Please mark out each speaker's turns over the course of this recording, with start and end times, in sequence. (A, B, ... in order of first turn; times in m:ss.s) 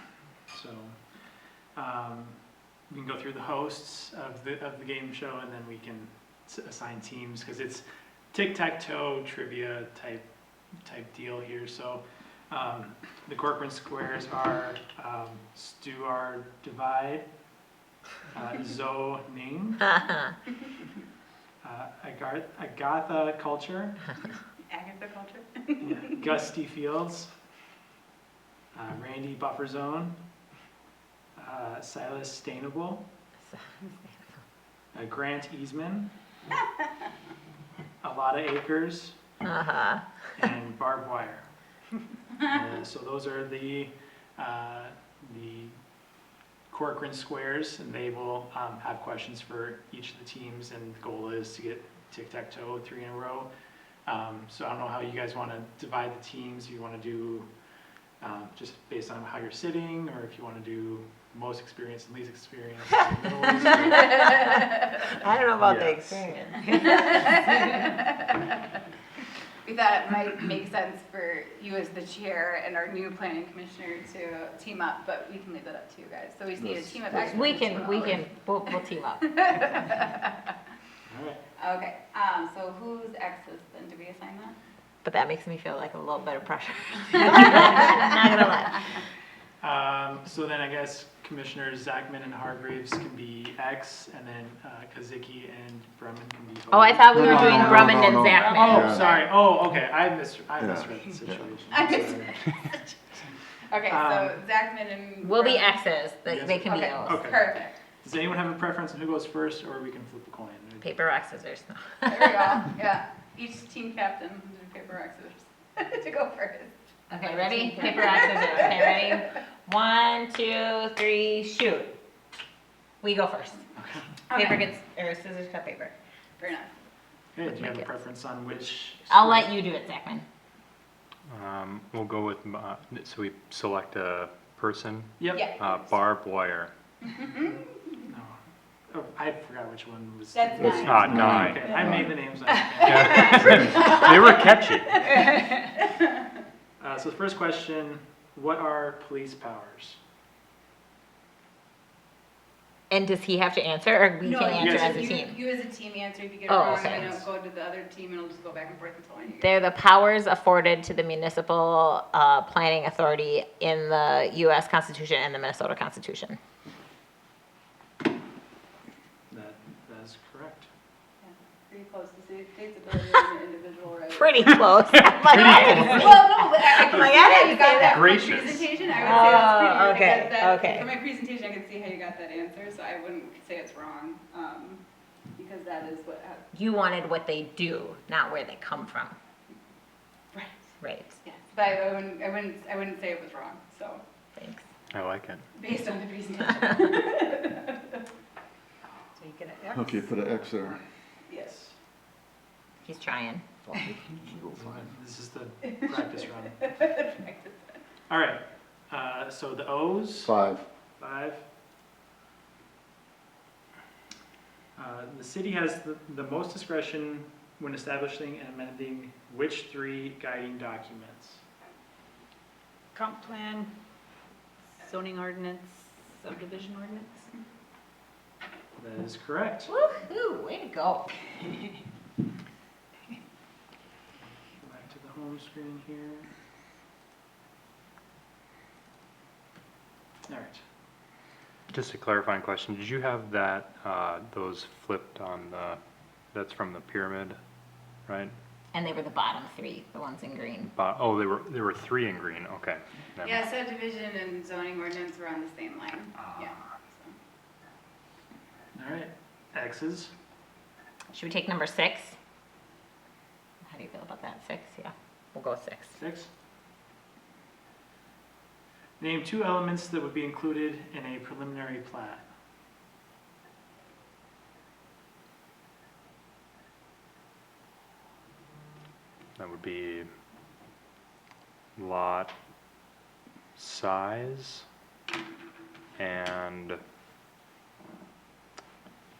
0:00.5-0:00.9 A
0:01.8-0:02.4 A
0:02.9-0:10.2 A
0:10.8-0:17.3 A
0:18.3-0:19.9 A
0:21.6-0:24.0 A
0:24.7-0:26.1 B
0:25.8-0:27.3 A
0:28.7-0:30.2 A
0:31.4-0:33.1 A
0:33.5-0:34.2 C
0:34.9-0:36.1 A
0:38.0-0:39.2 A
0:39.4-0:40.0 C
0:40.4-0:41.5 A
0:42.4-0:45.7 A
0:46.7-0:53.5 A
0:54.0-0:57.5 A
0:58.2-1:04.3 A
1:04.0-1:04.6 B
1:04.2-1:07.6 C
1:05.7-1:06.2 D
1:06.6-1:08.5 B
1:09.6-1:20.4 B
1:16.6-1:17.6 E
1:17.3-1:19.6 C
1:21.1-1:21.4 A
1:21.6-1:24.5 B
1:25.0-1:28.8 C
1:27.2-1:28.0 B
1:29.6-1:42.5 A
1:36.7-1:38.9 C
1:37.0-1:39.1 E
1:38.5-1:39.3 B
1:40.6-1:41.4 E
1:41.7-1:42.9 B
1:43.7-1:45.7 B
1:43.9-1:44.4 A
1:45.2-1:47.1 C
1:46.2-1:47.5 A
1:46.5-1:47.8 B
1:48.0-1:51.0 A
1:50.8-1:52.4 C
1:52.0-1:59.2 B
1:57.1-2:02.0 C
2:03.0-2:03.6 C
2:03.8-2:04.1 A
2:04.3-2:04.7 B
2:04.3-2:05.9 C
2:06.4-2:06.7 B
2:07.3-2:09.6 A
2:07.5-2:07.8 C
2:09.1-2:10.2 C
2:11.3-2:16.7 D
2:15.2-2:15.5 A
2:15.3-2:15.8 B
2:17.0-2:17.6 B
2:18.0-2:18.4 A
2:18.9-2:23.9 A
2:20.3-2:21.2 B
2:20.7-2:22.1 E
2:20.8-2:21.7 D
2:22.6-2:24.3 B
2:22.8-2:25.1 D
2:25.0-2:26.0 B
2:26.8-2:30.0 A
2:32.9-2:35.4 C
2:34.2-2:39.6 B
2:34.5-2:35.1 A
2:36.5-2:37.1 C
2:39.4-2:46.4 C
2:49.3-2:50.7 A
2:51.2-2:54.6 B
2:54.1-2:58.1 C
2:55.2-3:04.8 B
2:58.1-2:58.5 D
2:58.2-2:59.1 A
2:59.0-3:00.9 C
3:05.4-3:06.4 B
3:06.5-3:09.1 C
3:10.3-3:10.6 B
3:10.8-3:11.2 C
3:11.2-3:14.0 B
3:14.4-3:14.6 C
3:14.9-3:15.5 D
3:15.6-3:18.0 B
3:19.2-3:20.2 F
3:19.7-3:20.8 E
3:21.3-3:21.5 B
3:22.8-3:23.4 C
3:23.6-3:24.8 E
3:24.5-3:26.6 A
3:25.7-3:26.0 B
3:26.6-3:27.8 B
3:28.1-3:30.3 A
3:30.2-3:30.6 E
3:31.0-3:31.4 A
3:34.8-3:41.4 A
3:42.9-3:43.7 F
3:44.8-3:47.3 F
3:48.8-3:49.7 A
3:49.7-3:51.1 C
3:54.6-3:56.3 A
4:00.3-4:00.6 A
4:01.7-4:05.8 D
4:06.3-4:07.4 D
4:08.1-4:08.3 D
4:08.7-4:10.7 C
4:10.6-4:13.4 D
4:13.2-4:17.1 B
4:18.7-4:20.1 A
4:21.1-4:22.2 C
4:23.6-4:25.9 C
4:25.9-4:26.3 A
4:29.0-4:32.2 A
4:39.4-4:40.1 D
4:41.8-4:42.3 D
4:43.6-4:44.6 D
4:46.0-4:46.8 D